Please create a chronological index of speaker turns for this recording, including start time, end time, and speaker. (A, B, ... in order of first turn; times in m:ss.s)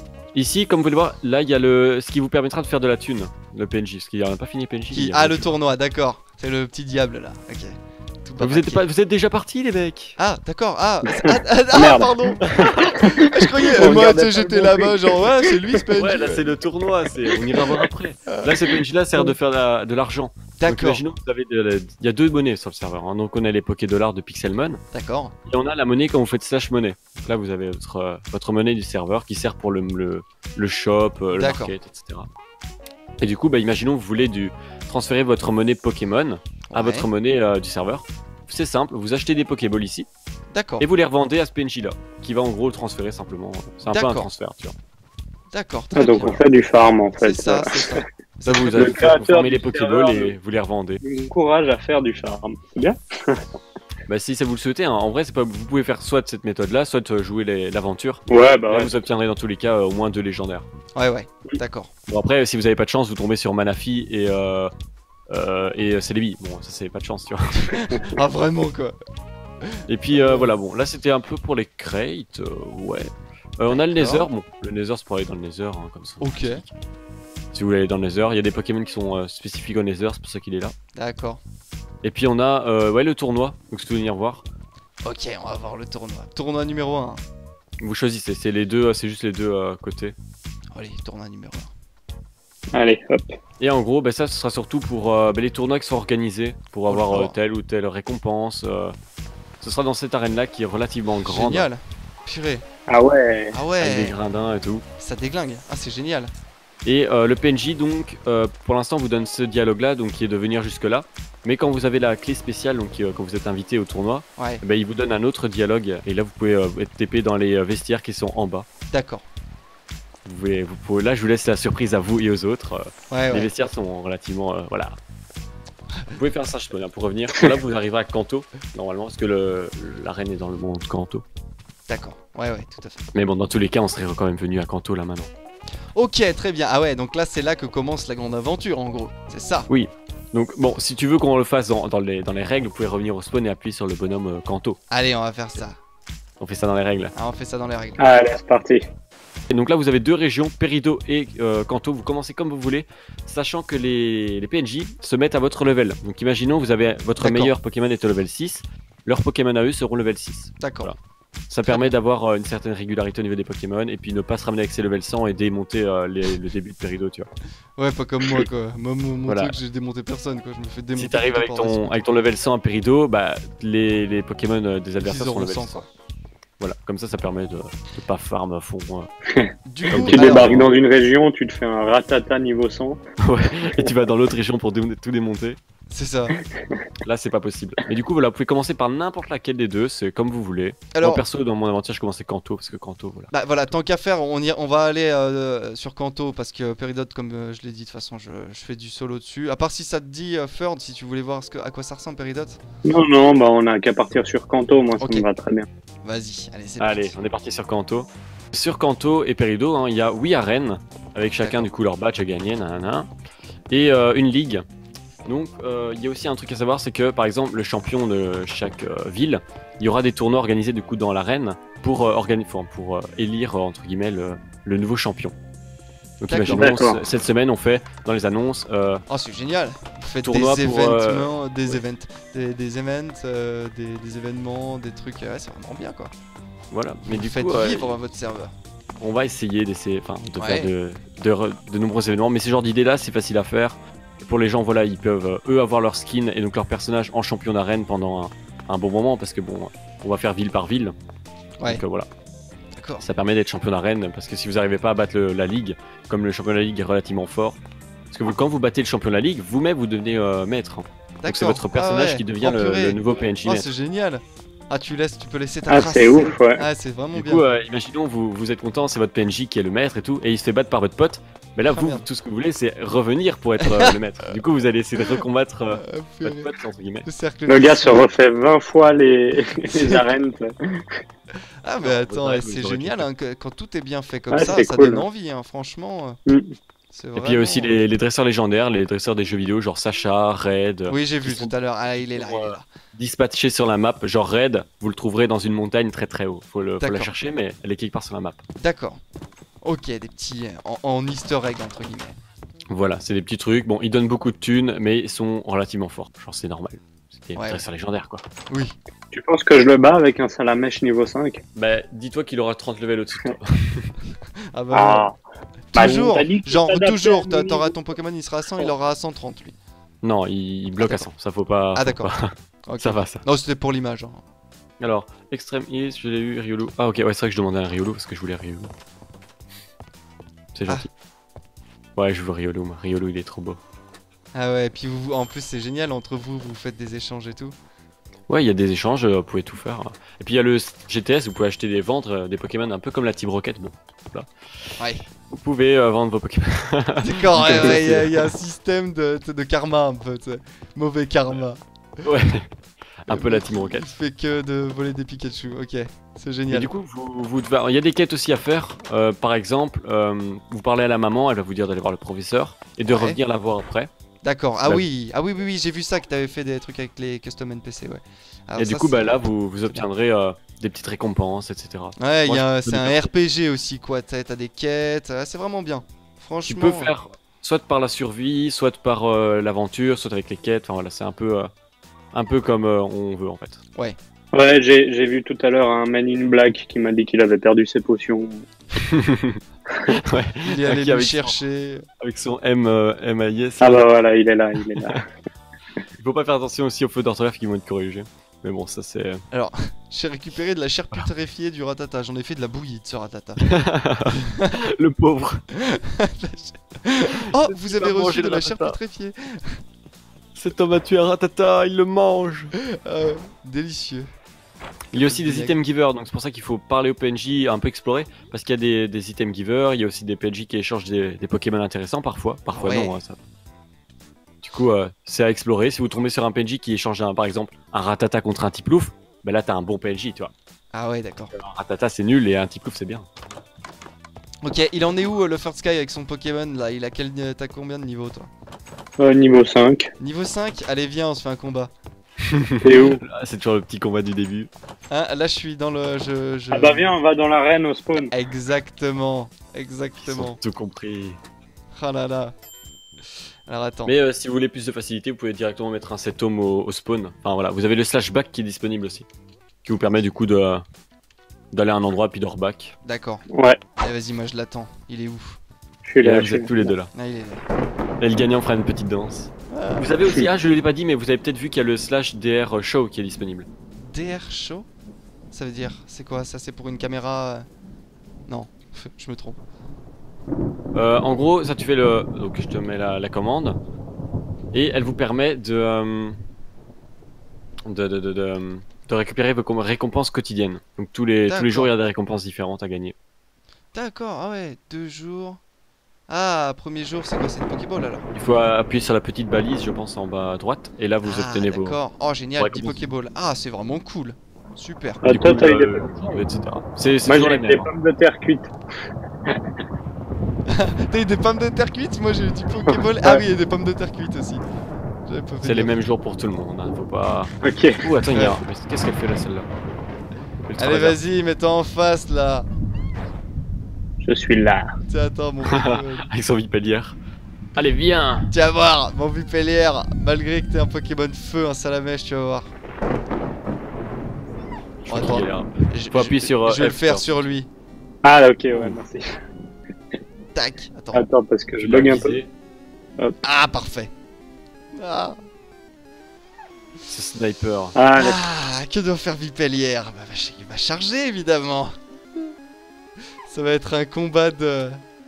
0:00.3-0:05.5 A
0:04.9-0:08.8 B
0:08.4-0:10.2 A
0:10.2-0:16.6 B
0:11.1-0:15.3 C
0:12.4-0:13.0 A
0:15.9-0:24.8 A
0:17.5-0:19.3 B
0:20.6-0:21.0 B
0:24.9-0:25.3 B
0:25.5-0:32.3 A
0:31.3-0:31.8 B
0:33.2-0:40.1 A
0:36.7-0:37.1 B
0:40.5-0:40.9 B
0:40.8-0:44.7 A
0:43.9-0:44.3 B
0:45.5-0:46.3 B
0:45.9-0:48.0 C
0:46.1-0:46.4 A
0:47.2-0:49.1 B
0:48.4-0:51.0 A
0:48.7-0:50.3 C
0:51.0-0:53.4 C
0:54.1-1:00.7 A
0:58.3-0:59.0 C
1:00.9-1:01.9 B
1:02.1-1:04.7 A
1:05.3-1:07.8 A
1:07.7-1:09.0 B
1:09.6-1:10.6 B
1:09.9-1:16.7 A
1:13.7-1:14.3 B
1:16.2-1:16.6 B
1:17.5-1:20.7 A
1:20.9-1:21.4 B
1:22.0-1:24.4 A
1:25.0-1:27.2 B
1:27.8-1:30.1 A
1:30.7-1:31.7 B
1:32.7-1:33.3 C
1:33.6-1:38.9 A
1:36.9-1:37.4 B
1:39.6-1:41.7 A
1:41.2-1:42.6 B
1:42.9-1:43.6 C
1:43.5-1:44.2 B
1:43.8-1:44.8 A
1:45.0-1:46.3 B
1:46.8-1:58.7 A
1:54.4-1:54.6 B
1:58.9-1:59.2 B
2:00.2-2:05.0 A
2:03.1-2:03.5 B
2:06.1-2:11.2 A
2:11.9-2:13.0 B
2:13.1-2:15.3 A
2:15.9-2:19.7 B
2:19.7-2:24.8 A
2:24.9-2:25.8 B
2:26.4-2:27.1 A
2:27.1-2:28.1 B
2:28.0-2:28.8 C
2:29.5-2:41.0 A
2:37.2-2:37.5 B
2:40.6-2:40.9 B
2:41.5-2:47.3 A
2:41.7-2:41.9 B
2:47.8-2:51.9 B
2:49.3-2:49.6 A
2:51.0-2:55.8 A
2:55.0-2:55.8 B
2:56.6-2:59.1 A
2:59.3-3:03.0 C
2:59.7-3:00.5 B
2:59.9-3:00.7 A
3:03.2-3:05.6 A
3:05.9-3:06.4 B
3:06.4-3:06.8 C
3:07.0-3:13.3 A
3:10.9-3:11.2 B
3:13.3-3:22.6 B
3:22.8-3:25.6 C
3:25.0-3:25.3 B
3:26.0-3:27.1 B
3:26.8-3:33.1 A
3:31.4-3:31.7 B
3:33.7-3:34.6 A
3:35.2-3:45.4 A
3:46.2-3:49.0 A
3:46.2-3:46.7 B
3:46.5-3:47.0 C
3:49.1-3:56.1 B
3:50.2-3:51.8 A
3:56.7-3:57.9 A
3:57.0-3:58.5 B
3:59.0-4:10.9 A
4:00.4-4:00.7 B
4:11.6-4:12.1 A
4:12.8-4:13.0 B
4:13.0-4:17.6 A
4:18.1-4:23.7 A
4:21.2-4:27.5 B
4:25.7-4:26.6 C
4:27.1-4:37.1 A
4:31.6-4:32.0 B
4:33.6-4:34.0 B
4:35.7-4:36.5 B
4:37.0-4:38.1 B
4:37.5-4:40.8 C
4:39.7-4:40.1 B
4:41.6-4:46.2 B
4:41.8-4:43.1 A
4:44.3-4:45.0 C
4:46.3-4:46.5 C
4:46.9-4:47.8 B
4:47.2-4:51.5 A
4:50.9-4:52.6 B
4:52.1-4:58.4 A
4:56.8-4:57.1 B
4:58.6-4:59.0 B
4:59.6-5:02.2 B
5:02.7-5:08.2 A
5:07.3-5:07.6 B
5:08.5-5:08.8 B
5:09.1-5:11.4 C
5:11.5-5:13.9 A
5:14.5-5:15.1 B
5:14.7-5:15.2 C
5:15.7-5:19.5 B
5:15.8-5:17.7 C
5:20.0-5:23.2 A
5:20.8-5:21.1 B
5:21.7-5:24.2 B
5:24.8-5:28.7 A
5:30.5-5:30.9 A
5:32.0-5:33.6 A
5:34.3-5:37.6 B
5:38.3-5:44.8 A
5:44.8-5:45.0 B
5:45.3-5:48.3 A
5:47.0-5:52.1 B
5:52.0-5:52.5 A
5:53.0-5:53.9 A
5:53.1-5:56.7 B
5:56.5-6:03.9 A
6:02.9-6:03.2 B
6:04.2-6:09.9 B
6:08.6-6:13.1 A
6:12.0-6:16.9 B
6:16.4-6:21.5 A
6:22.1-6:23.6 A
6:24.3-6:28.4 C
6:28.8-6:31.4 A
6:30.4-6:31.8 B
6:32.0-6:33.9 A
6:33.6-6:35.0 C
6:36.0-6:39.2 A
6:39.3-6:43.4 B
6:43.4-6:45.4 A
6:44.1-6:44.6 B
6:45.6-6:49.6 B
6:47.2-6:48.8 A
6:50.3-6:52.5 A
6:52.8-6:54.1 B
6:54.9-6:55.6 B
6:54.9-7:03.2 A
7:02.5-7:03.0 B
7:04.4-7:10.3 A
7:10.7-7:11.3 B
7:11.3-7:13.1 A
7:14.4-7:18.3 B
7:19.0-7:19.9 C
7:20.0-7:21.7 B
7:22.3-7:24.5 A
7:22.6-7:23.0 C
7:24.9-7:26.9 B
7:26.5-7:28.1 C
7:28.1-7:30.4 B
7:30.0-7:31.2 A
7:31.7-7:32.3 B
7:33.5-7:33.9 B
7:33.8-7:39.0 A
7:39.6-7:40.6 A
7:41.5-7:42.7 A
7:42.8-7:43.2 B
7:43.3-7:43.6 C
7:43.8-7:45.4 B
7:45.8-7:46.7 C
7:46.0-7:46.9 A
7:46.9-7:47.4 B
7:48.0-7:53.5 A
7:49.5-7:49.9 B
7:53.8-7:54.7 B
7:55.3-7:57.5 B
7:58.3-7:59.4 B
8:00.7-8:03.6 A
8:04.5-8:06.2 A
8:07.7-8:12.9 A
8:11.3-8:11.7 B
8:13.7-8:15.4 B
8:16.1-8:18.0 B
8:18.1-8:21.8 A
8:21.0-8:25.0 B
8:22.4-8:22.9 A
8:25.0-8:26.2 C
8:25.0-8:27.7 A
8:27.0-8:28.5 C
8:30.5-8:34.4 B
8:32.7-8:33.2 C
8:35.0-8:35.8 B
8:35.4-8:39.5 A
8:37.4-8:37.8 C
8:38.1-8:38.4 B
8:40.5-8:41.0 A
8:40.6-8:42.5 B
8:44.0-8:44.7 C
8:44.9-8:46.1 B
8:45.4-8:47.0 A
8:47.6-8:48.3 A
8:48.3-8:52.5 B
8:54.8-8:57.2 A
8:54.8-8:57.5 B
8:58.0-8:59.1 C
8:58.5-8:58.8 A
9:00.3-9:01.0 B
9:00.9-9:02.2 C
9:01.6-9:02.3 A
9:03.2-9:03.9 B
9:04.7-9:05.2 B
9:06.9-9:07.7 A
9:07.8-9:08.2 C
9:08.0-9:12.3 B
9:13.3-9:14.8 B